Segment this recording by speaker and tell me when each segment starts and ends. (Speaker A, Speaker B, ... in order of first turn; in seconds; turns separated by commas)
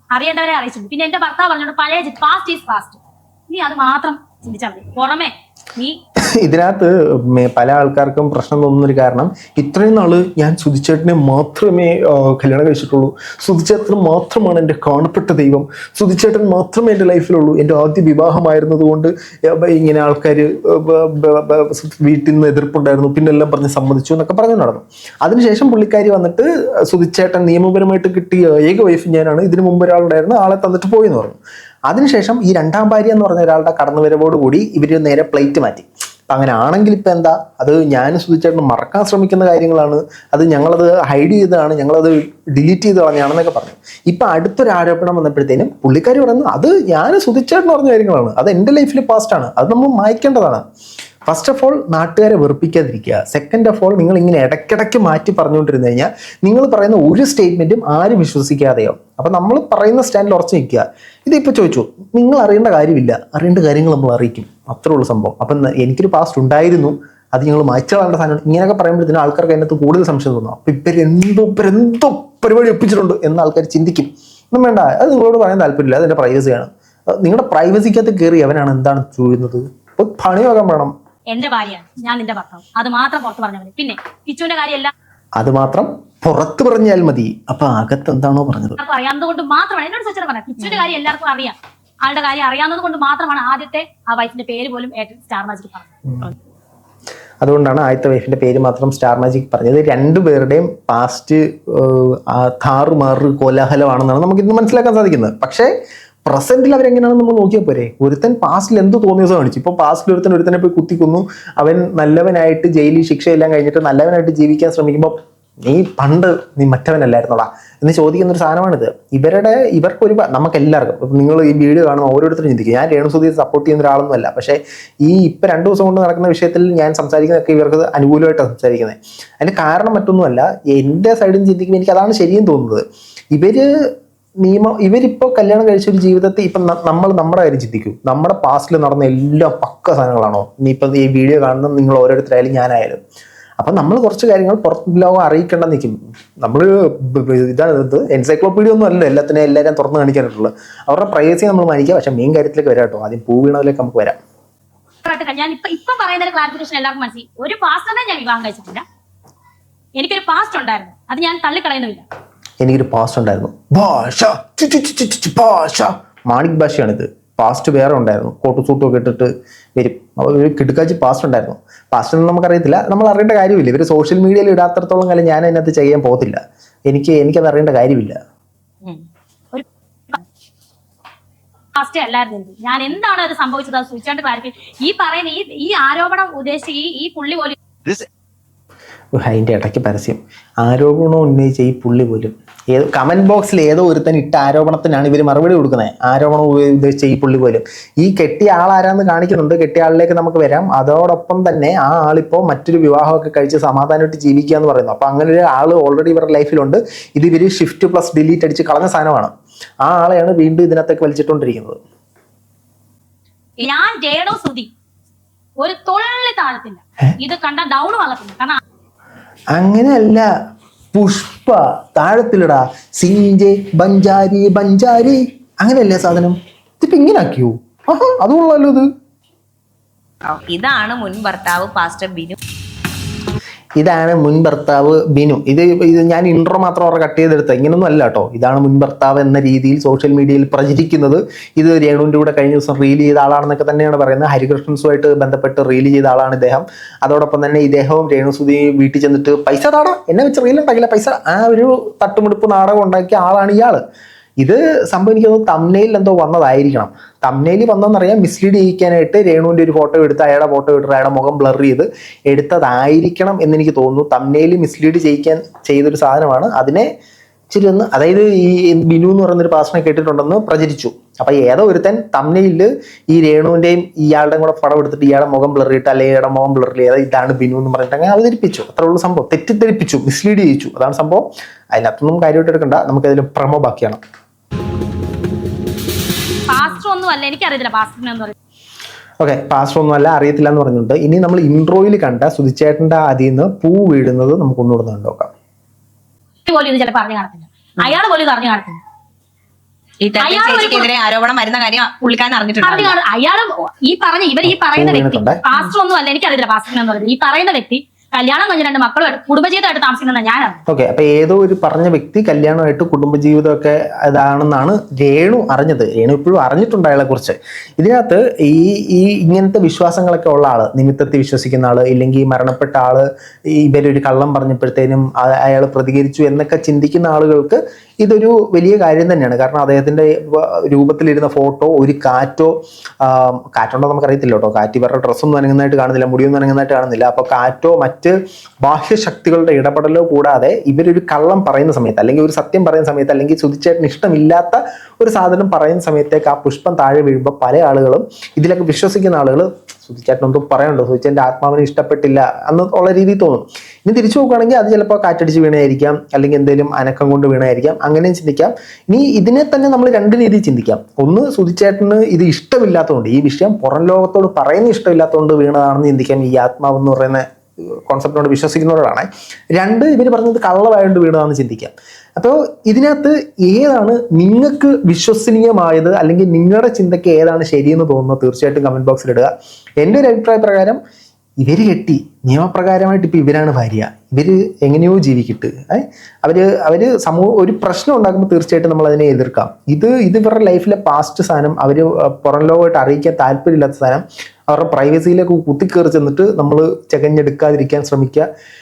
Speaker A: 0.1-6.0, Speaker B: 6.2-50.6, Speaker B: 51.2-80.9, Speaker A: 81.3-84.9, Speaker B: 85.4-88.8, Speaker A: 88.8-95.9, Speaker B: 97.4-105.7, Speaker B: 106.3-133.7, Speaker B: 134.4-143.0, Speaker B: 143.6-154.2, Speaker A: 155.0-158.8, Speaker A: 160.0-162.0, Speaker B: 162.6-178.2, Speaker A: 179.5-180.2, Speaker A: 181.8-187.6, Speaker B: 189.2-209.3, Speaker B: 209.8-211.8, Speaker A: 213.6-214.7, Speaker A: 215.6-218.6, Speaker B: 219.5-220.3, Speaker B: 220.9-228.9, Speaker C: 230.3-232.4, Speaker B: 233.8-253.8, Speaker B: 254.4-266.9, Speaker B: 267.5-284.0, Speaker A: 286.5-288.4, Speaker B: 289.2-295.3, Speaker A: 296.5-298.8, Speaker C: 300.0-303.0, Speaker A: 300.2-300.9, Speaker A: 302.6-310.6, Speaker B: 304.4-305.4, Speaker B: 310.7-380.8, Speaker B: 381.4-398.3